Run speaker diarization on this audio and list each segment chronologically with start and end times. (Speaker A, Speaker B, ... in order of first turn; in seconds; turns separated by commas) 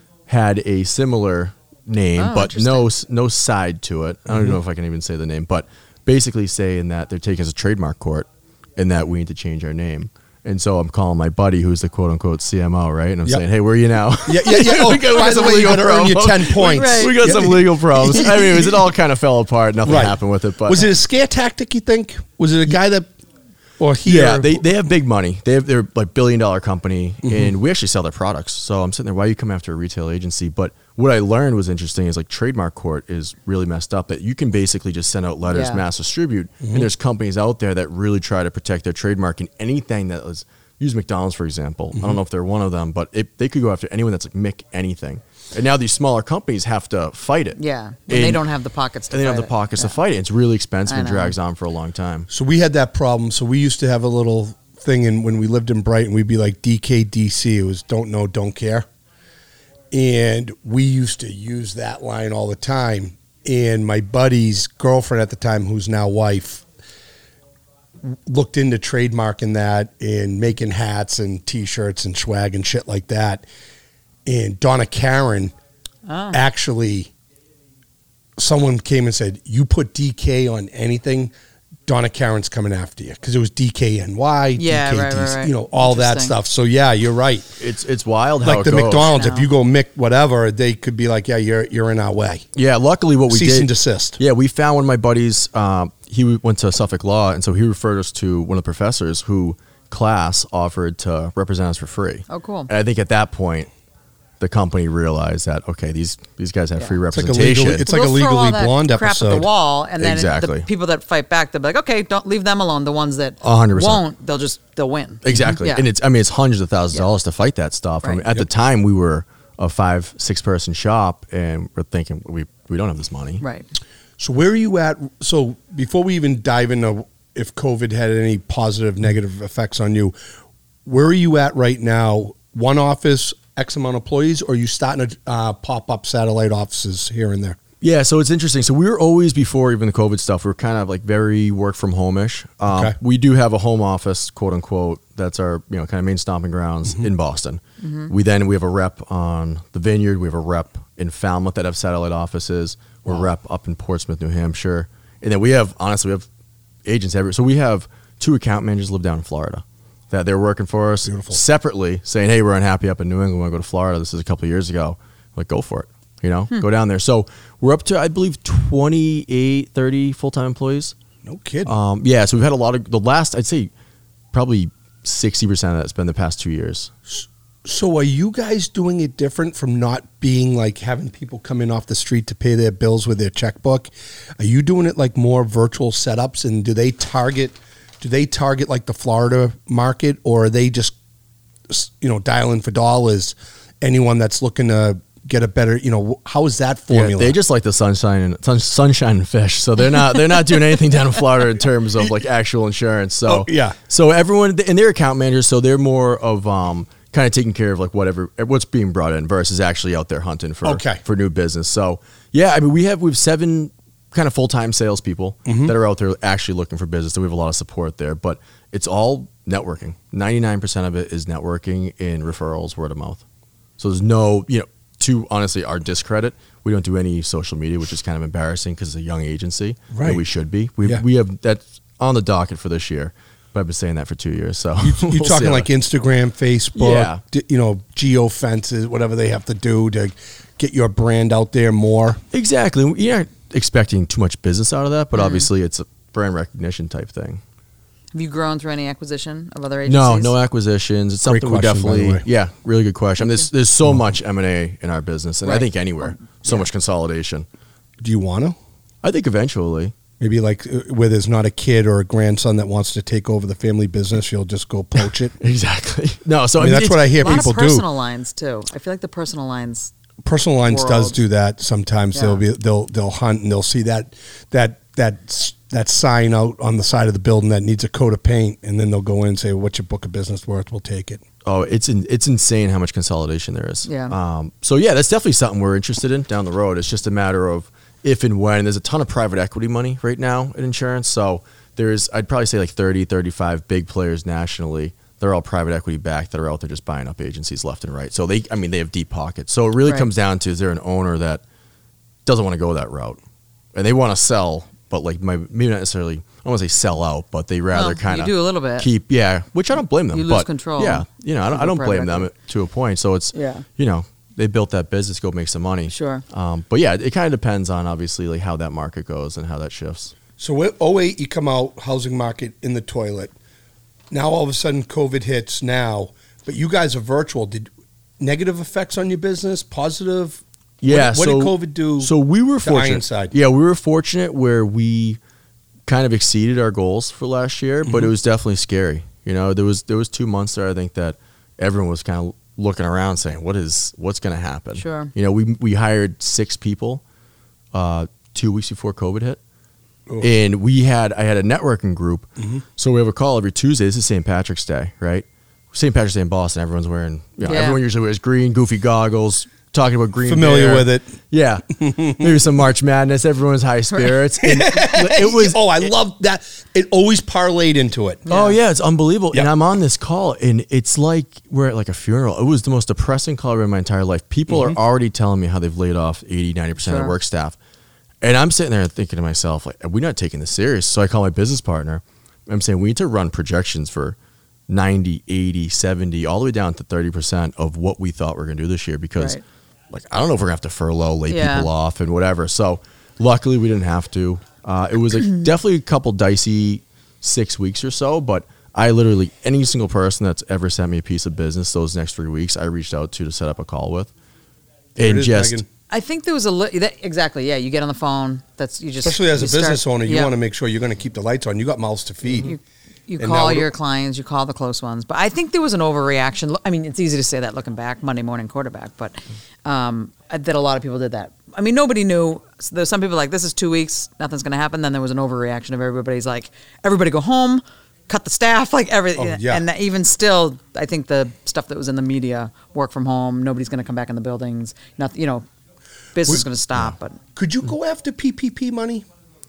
Speaker A: 0.3-20.9, Speaker B: 2.2-2.9, Speaker C: 14.2-18.7, Speaker B: 16.6-17.2, Speaker C: 19.8-23.1, Speaker C: 23.8-24.6, Speaker A: 24.0-48.4, Speaker B: 35.5-35.8, Speaker B: 47.6-50.0, Speaker A: 49.1-52.3, Speaker B: 50.9-51.4, Speaker C: 52.3-58.9, Speaker C: 59.9-66.6, Speaker C: 68.0-73.4, Speaker C: 74.2-75.5, Speaker B: 76.0-76.4, Speaker C: 76.3-77.1, Speaker C: 78.4-81.3, Speaker C: 81.9-87.5, Speaker B: 84.6-86.3, Speaker A: 87.6-89.2, Speaker C: 88.4-92.5, Speaker B: 88.9-89.5, Speaker A: 92.5-103.7, Speaker C: 93.3-94.2, Speaker B: 102.3-102.7, Speaker A: 104.4-107.8, Speaker C: 107.1-109.5, Speaker B: 107.9-115.9, Speaker A: 110.0-110.7, Speaker A: 113.4-114.0, Speaker A: 115.2-123.4, Speaker B: 123.4-123.7, Speaker C: 124.2-130.1, Speaker C: 130.8-137.6, Speaker A: 137.8-156.3, Speaker C: 142.7-142.9, Speaker B: 147.8-148.1, Speaker A: 156.8-170.9, Speaker C: 161.0-161.4, Speaker C: 171.2-171.7, Speaker A: 171.6-173.7, Speaker A: 174.3-176.9, Speaker C: 177.1-190.9, Speaker C: 191.7-197.3, Speaker A: 196.9-223.2, Speaker C: 203.3-203.8, Speaker C: 210.6-211.0, Speaker C: 215.4-215.7, Speaker A: 223.8-235.7, Speaker C: 229.9-230.2, Speaker C: 234.8-242.2, Speaker A: 236.8-237.2, Speaker A: 242.3-247.4, Speaker B: 245.1-245.5, Speaker B: 248.1-250.3, Speaker A: 249.8-257.4, Speaker C: 251.2-252.2, Speaker C: 258.0-258.6, Speaker A: 259.0-259.9, Speaker C: 260.2-265.3, Speaker A: 265.4-267.3, Speaker C: 266.6-267.8, Speaker B: 267.1-269.9, Speaker C: 270.2-281.2, Speaker B: 270.7-271.2, Speaker B: 272.1-272.4, Speaker A: 281.4-301.4, Speaker B: 283.8-284.1, Speaker A: 302.2-303.2, Speaker A: 303.7-320.1, Speaker B: 307.7-308.9, Speaker B: 310.1-312.3, Speaker B: 313.3-313.6, Speaker B: 315.9-316.2, Speaker C: 320.4-323.3, Speaker C: 324.1-332.1, Speaker A: 330.8-335.2, Speaker C: 332.6-333.3, Speaker A: 335.9-347.0, Speaker B: 344.8-345.1, Speaker A: 347.7-349.4, Speaker A: 350.2-365.9, Speaker C: 352.4-352.6, Speaker B: 357.4-357.8, Speaker C: 360.2-361.1, Speaker C: 361.7-362.4, Speaker C: 364.4-368.2, Speaker B: 368.3-368.6, Speaker A: 368.3-377.6, Speaker C: 374.5-374.8, Speaker B: 376.8-377.1, Speaker A: 378.2-384.1, Speaker A: 384.7-389.4, Speaker A: 389.9-404.1, Speaker B: 391.3-391.7, Speaker C: 404.9-405.7, Speaker A: 405.0-405.6, Speaker B: 405.9-410.3, Speaker C: 409.0-412.5, Speaker B: 412.4-435.4, Speaker C: 413.2-413.7, Speaker C: 429.1-429.6, Speaker B: 436.1-437.2, Speaker C: 437.3-439.0